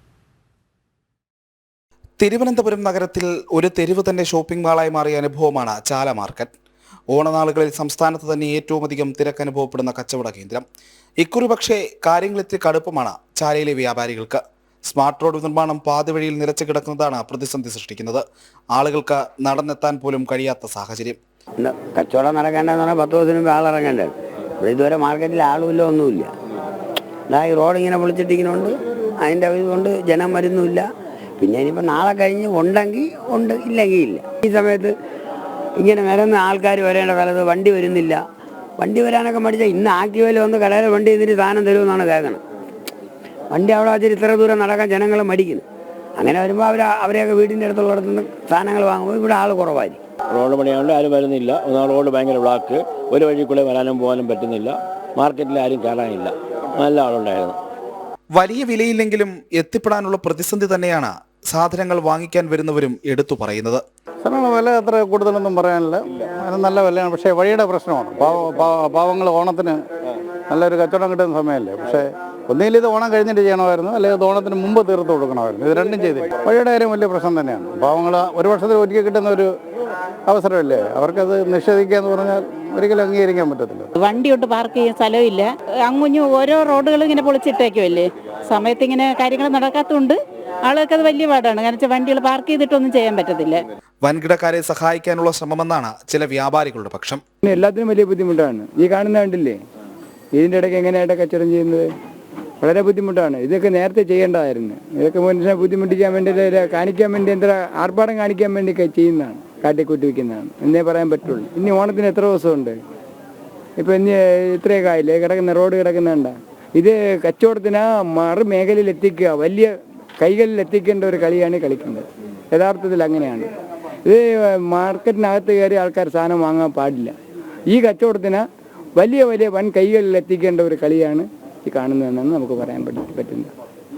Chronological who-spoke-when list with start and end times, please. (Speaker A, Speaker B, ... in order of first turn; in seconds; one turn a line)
Speaker A: 2.2-6.5
Speaker A: 7.1-10.6
Speaker A: 11.2-21.2
Speaker B: 21.6-26.3
Speaker B: 27.3-30.9
Speaker B: 31.4-34.9
Speaker B: 35.8-38.2
Speaker B: 38.8-42.4
Speaker B: 43.5-45.6
Speaker B: 46.2-50.0
Speaker C: 50.3-57.6
Speaker A: 58.3-63.8
Speaker D: 64.2-69.8
Speaker D: 70.5-79.5
Speaker D: 80.3-83.9
Speaker E: 84.0-93.6
Speaker A: 94.0-97.2
Speaker F: 97.4-99.6
Speaker F: 100.3-101.9
Speaker F: 102.6-112.8
Speaker F: 113.8-123.5
Speaker F: 124.0-127.1
Speaker F: 127.7-133.5